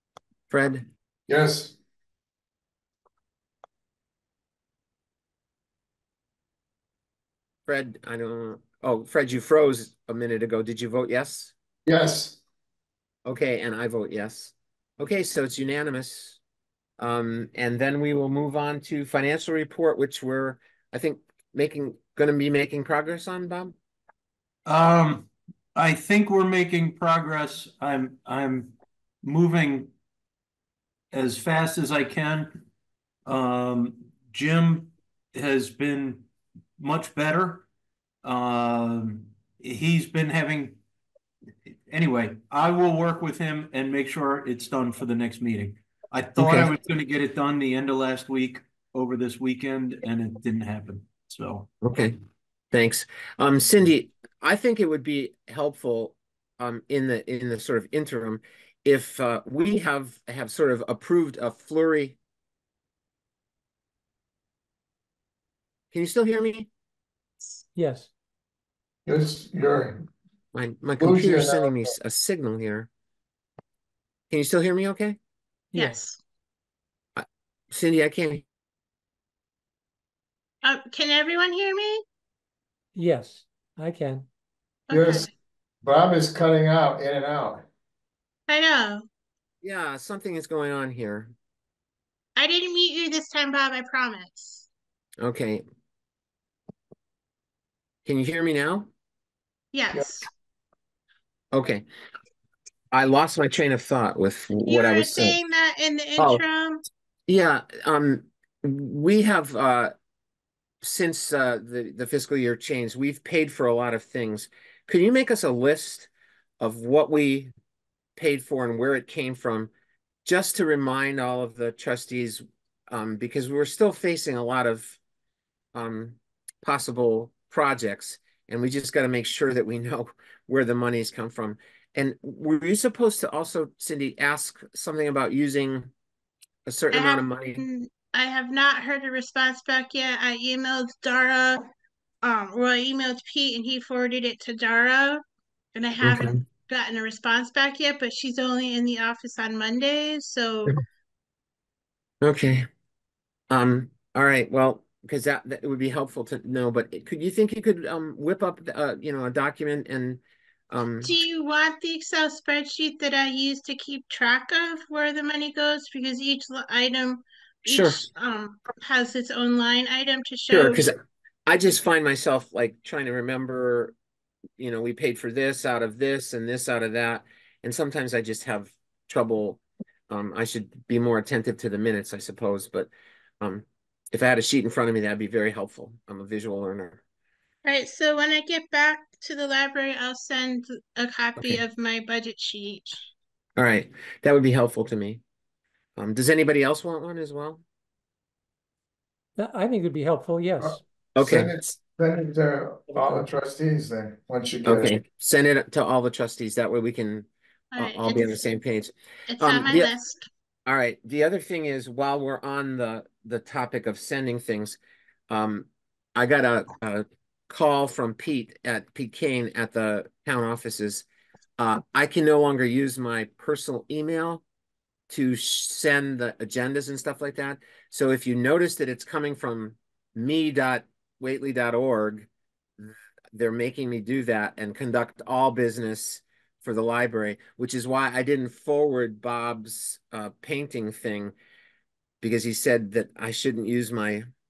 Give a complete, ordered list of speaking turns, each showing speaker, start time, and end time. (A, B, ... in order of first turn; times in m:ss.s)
0:00.5-0:00.8 A
0:01.3-0:01.8 B
0:07.7-0:11.5 A
0:11.9-0:12.4 B
0:13.2-0:16.4 A
0:17.0-0:23.8 A
0:24.7-0:29.9 C
0:31.1-0:32.6 C
0:33.3-0:36.3 C
0:36.8-0:37.6 C
0:38.2-0:40.8 C
0:41.9-0:51.7 C
0:46.4-0:46.7 A
0:51.8-0:52.2 A
0:52.7-1:02.2 A
1:05.9-1:06.7 A
1:07.8-1:08.1 D
1:09.1-1:10.0 B
1:10.5-1:12.9 A
1:11.0-1:11.7 B
1:14.3-1:15.2 A
1:15.7-1:16.2 E
1:17.2-1:18.4 A
1:20.6-1:22.0 E
1:23.0-1:24.3 D
1:24.9-1:25.3 E
1:24.9-1:25.3 B
1:25.8-1:27.6 B
1:28.5-1:29.1 E
1:29.6-1:31.3 A
1:32.4-1:34.7 E
1:35.2-1:35.6 A
1:38.0-1:38.9 A
1:39.7-1:40.3 E
1:41.5-1:41.8 A
1:42.9-1:45.4 A
1:44.7-1:46.8 E
1:47.3-1:49.9 A
1:50.8-1:57.5 A
1:58.2-1:59.7 A
2:00.2-2:05.0 A
2:05.8-2:15.9 A
2:16.7-2:17.7 A
2:16.9-2:21.7 E
2:22.2-2:25.2 E
2:25.8-2:30.8 E
2:26.0-2:26.4 A
2:32.2-2:32.7 A
2:33.5-2:41.2 A
2:41.0-2:50.8 E
2:47.7-2:48.0 A
2:50.5-2:53.9 A
2:54.6-3:02.9 A
3:03.4-3:07.0 A
3:07.6-3:13.1 E
3:13.6-3:15.2 A
3:16.0-3:17.6 A
3:19.4-3:20.8 D
3:20.6-3:24.9 B
3:21.2-3:21.5 A
3:24.6-3:29.9 A
3:27.7-3:28.5 E
3:29.3-3:30.2 E
3:30.7-3:34.8 A
3:35.3-3:41.1 A
3:41.6-3:44.4 A
3:45.1-3:52.3 A
3:52.8-4:01.3 A
4:02.2-4:04.2 A